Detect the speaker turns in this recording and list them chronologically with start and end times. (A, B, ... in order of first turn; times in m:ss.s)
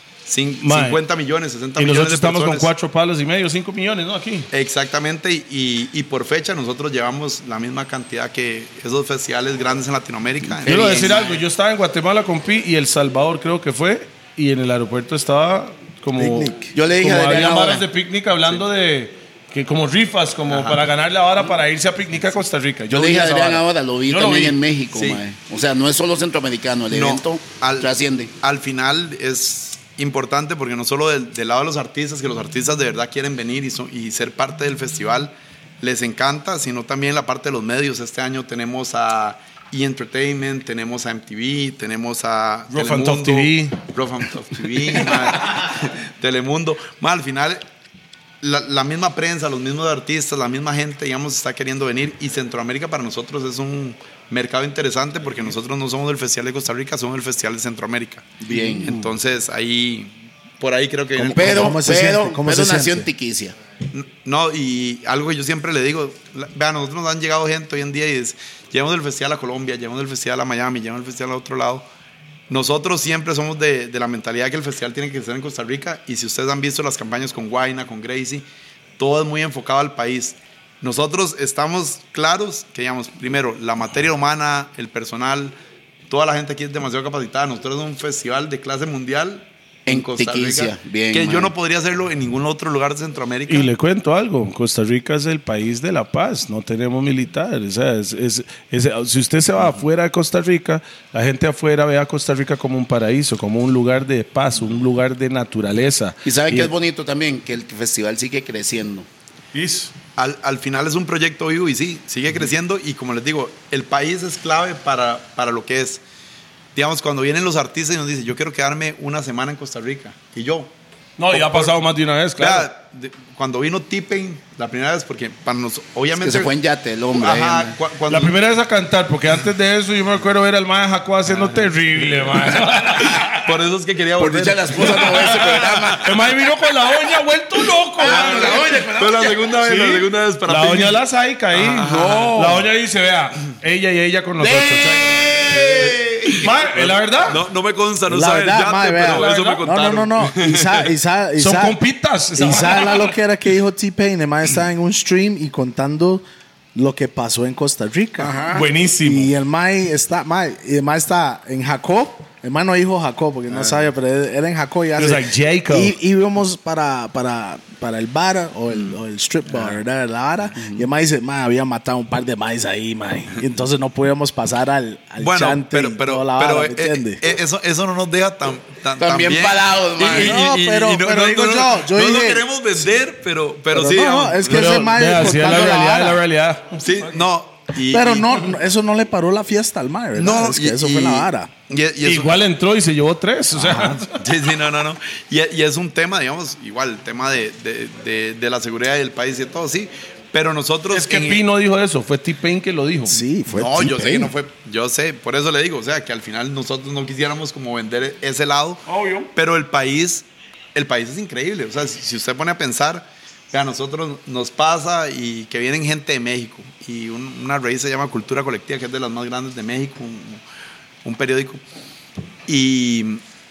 0:00.2-0:02.7 A
0:00.6-0:01.0 B
0:01.8-0:04.5 B
0:04.5-0:11.2 A
0:10.5-0:11.4 C
0:10.6-0:24.6 B
0:16.2-0:16.7 D
0:16.7-0:17.8 C
0:20.5-0:20.8 A
0:22.9-0:28.3 C
0:24.9-0:25.2 A
0:26.9-0:47.6 A
0:42.7-0:43.8 B
0:48.4-1:01.8 A
0:58.4-0:59.1 C
1:01.2-1:03.1 D
1:01.2-1:03.5 C
1:03.9-1:11.9 A
1:12.5-1:18.4 A
1:19.0-1:25.6 A
1:26.1-1:33.7 A
1:29.8-1:31.5 C
1:33.5-1:46.7 B
1:46.2-1:49.1 C
1:49.5-1:49.9 B
1:50.2-1:56.0 A
1:56.7-2:00.7 A
2:01.2-2:02.7 B
2:01.3-2:01.7 A
2:02.4-2:06.5 A
2:06.1-2:07.8 C
2:07.2-2:08.3 A
2:08.1-2:13.5 B
2:11.3-2:11.6 A
2:13.2-2:16.0 A
2:14.2-2:16.2 C
2:14.8-2:18.8 B
2:18.0-2:19.5 C
2:18.0-2:21.0 A
2:19.6-2:25.4 B
2:21.5-2:22.3 A
2:21.8-2:22.7 C
2:24.4-2:26.5 C
2:25.5-2:30.9 A
2:26.3-2:27.4 B
2:28.1-2:31.8 D
2:29.0-2:29.7 B
2:31.4-2:33.1 B
2:32.4-2:36.2 D
2:36.7-2:38.4 D
2:38.2-2:38.7 C
2:38.5-2:39.3 B
2:39.0-2:57.2 D
2:45.0-2:45.9 B
2:50.5-2:50.8 C
2:55.2-3:04.9 A
2:59.0-3:00.4 C
3:00.0-3:02.5 D
3:03.7-3:06.2 D
3:04.4-3:07.1 B
3:06.8-3:08.4 A
3:07.9-3:11.5 D
3:10.2-3:12.3 A
3:12.0-3:14.2 B
3:13.6-3:14.0 D
3:14.1-3:21.4 A
3:20.9-3:23.2 B
3:23.1-3:24.3 D
3:23.5-3:24.4 C
3:23.6-3:40.4 A
3:28.9-3:29.3 B
3:41.0-3:41.6 A
3:42.5-3:43.2 A